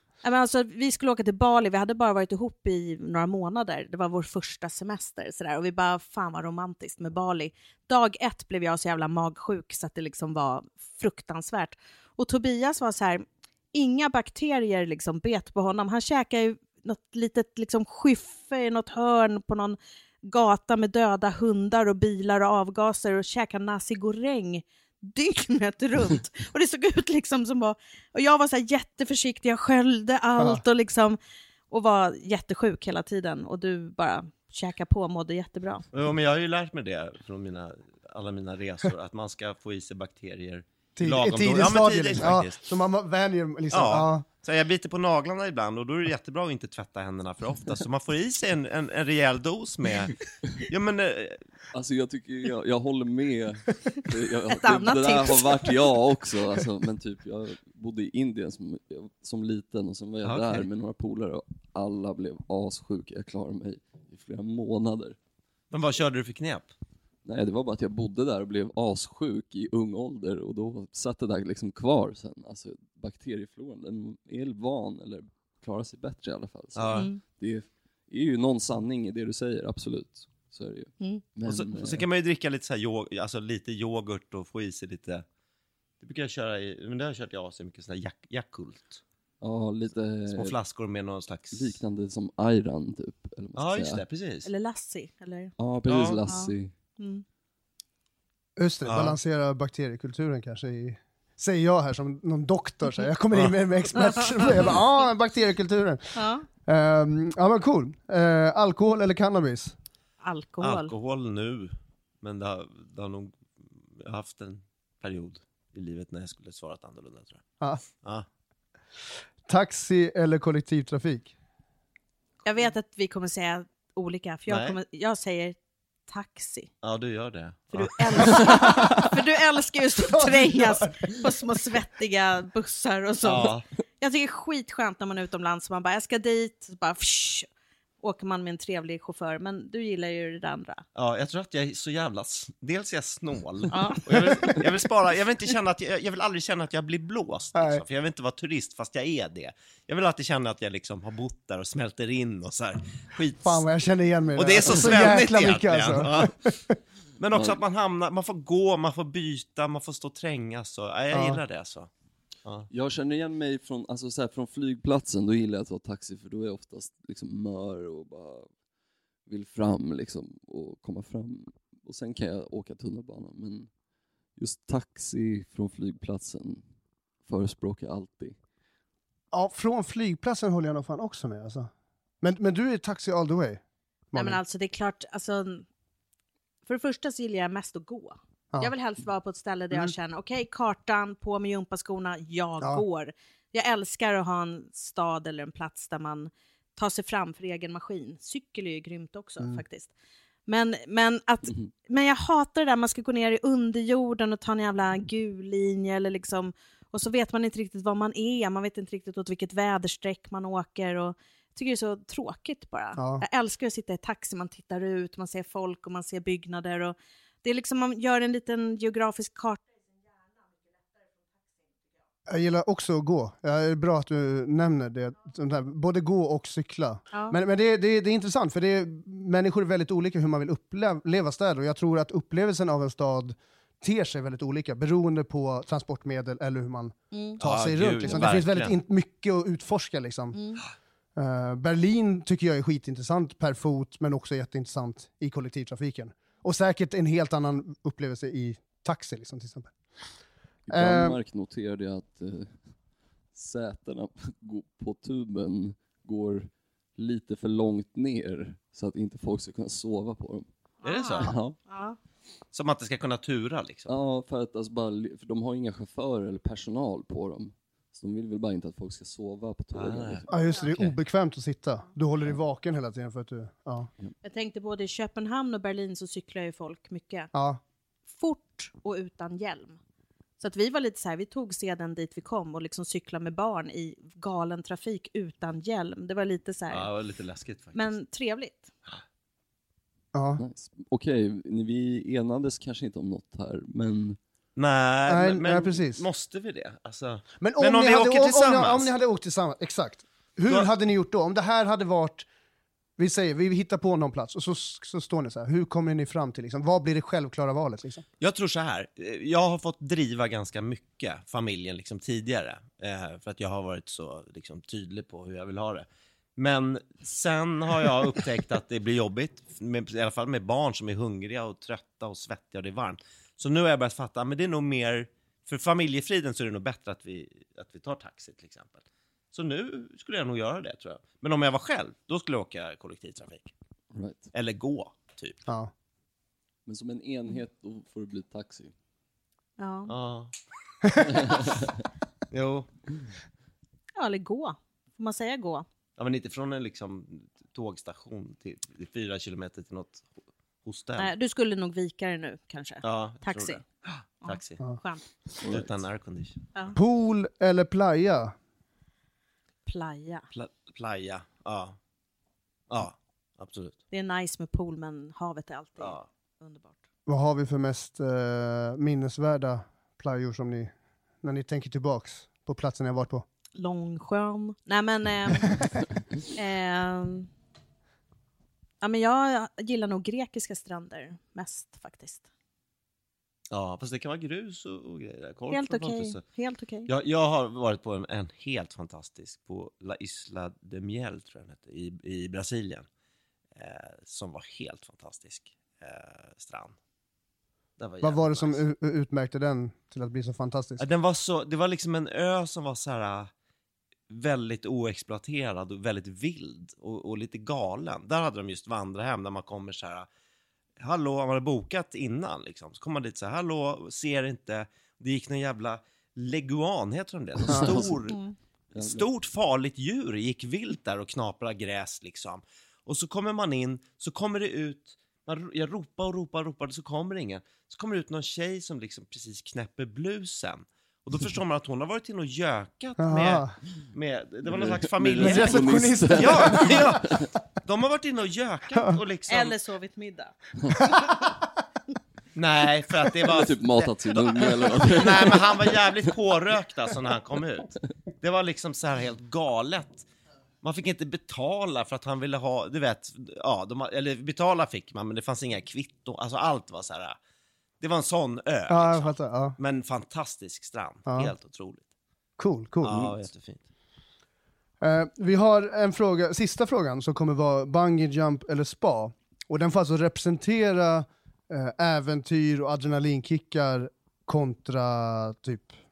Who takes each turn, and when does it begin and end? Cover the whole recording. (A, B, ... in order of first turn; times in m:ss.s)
0:00.2-0:31.2 A
0:30.4-0:30.6 B
0:31.7-0:35.8 A
0:35.9-0:42.6 C
0:41.0-0:44.2 B
0:43.7-0:51.4 C
0:51.7-1:05.2 D
0:54.5-0:55.8 A
1:00.2-1:00.7 C
1:05.7-1:06.7 C
1:07.2-1:22.0 D
1:16.8-1:17.1 C
1:16.9-1:17.2 A
1:21.5-1:25.3 C
1:26.0-1:29.0 C
1:29.4-1:30.6 D
1:30.3-1:31.8 C
1:31.5-1:34.0 D
1:33.6-1:34.5 C
1:34.4-1:35.5 A
1:35.6-1:36.7 D
1:35.9-1:36.2 C
1:36.3-1:37.2 A
1:38.6-1:49.8 B
1:38.8-1:39.2 C
1:44.0-1:44.5 A
1:46.2-1:46.5 A
1:50.2-1:50.9 A
1:50.6-1:57.4 C
1:59.5-2:01.3 B
2:02.4-2:05.6 A
2:04.5-2:04.8 C
2:06.1-2:06.7 A
2:06.8-2:08.7 C
2:07.7-2:17.5 A
2:08.4-2:09.0 B
2:10.1-2:11.3 B
2:13.2-2:13.7 C
2:18.0-2:20.8 A
2:21.0-2:33.6 C
2:23.7-2:24.6 A
2:27.6-2:27.8 B
2:33.4-2:36.7 B
2:34.4-2:36.4 C
2:37.2-2:41.9 C
2:37.3-2:37.6 D
2:41.1-2:41.4 B
2:42.7-2:48.5 D
2:49.3-2:53.7 D
2:54.4-2:56.7 D
2:57.2-2:58.4 D
2:59.3-3:01.7 B
3:02.2-3:04.4 B
3:04.2-3:05.7 A
3:06.7-3:19.9 A
3:20.5-3:39.6 A
3:33.0-3:33.3 B
3:42.3-4:00.4 B
3:47.1-3:47.4 A
3:57.1-3:57.4 A
3:57.4-3:58.8 C
3:58.1-3:58.3 A
4:00.3-4:00.6 A
4:01.2-4:09.8 B
4:10.7-4:12.7 D
4:10.7-4:11.2 B
4:13.3-4:20.5 D
4:20.8-4:22.0 A
4:20.8-4:21.3 C
4:21.2-4:21.6 D
4:22.5-4:23.9 C
4:23.9-4:30.3 D
4:29.7-4:30.9 C
4:30.3-4:33.9 B
4:34.2-4:37.3 A
4:37.3-4:37.6 B
4:38.1-4:39.8 A
4:40.4-4:46.9 A
4:46.7-4:48.0 C
4:47.7-4:48.7 A
4:50.1-4:50.4 B
4:50.4-4:54.2 D
4:54.6-4:58.9 C
4:55.1-4:56.0 B
4:57.4-5:02.3 B
5:03.0-5:08.0 B
5:08.2-5:33.5 C
5:33.9-5:34.3 D
5:34.3-5:35.4 C
5:36.7-5:38.7 D
5:39.6-5:39.9 A
5:39.9-5:40.3 C
5:40.8-5:41.3 C
5:41.2-5:41.7 D
5:42.3-5:42.9 C
5:44.0-5:45.7 A
5:46.0-5:51.1 C
5:51.0-5:53.6 A
5:52.8-5:54.6 C
5:54.2-5:55.1 A
5:55.4-5:55.7 D
5:55.5-5:56.8 C
5:56.7-5:58.4 B
5:59.7-6:00.2 A
6:00.3-6:01.8 C
6:02.7-6:03.8 C
6:03.9-6:06.8 A
6:05.8-6:06.0 C
6:07.1-6:13.2 B
6:13.6-6:15.7 A
6:16.3-6:17.3 A
6:18.8-6:22.2 A
6:23.5-6:26.2 C
6:25.5-6:26.9 A
6:26.9-6:32.9 C
6:33.6-6:36.8 C
6:37.8-6:38.6 C
6:38.0-6:40.8 B
6:40.8-6:43.3 C
6:44.1-6:50.1 C
6:50.8-6:58.2 C
6:57.4-6:58.0 D
6:58.1-6:58.4 A
6:58.8-6:59.1 D
6:58.8-7:19.6 C
7:13.0-7:13.6 B
7:14.4-7:17.3 D
7:15.2-7:16.9 B
7:19.3-7:20.4 A
7:22.4-7:30.1 C
7:23.3-7:25.8 D
7:30.6-7:37.2 C
7:37.8-7:41.8 C
7:38.7-7:39.6 B
7:41.1-7:41.3 B
7:42.4-7:43.2 B
7:42.8-7:43.6 C
7:44.8-7:55.8 B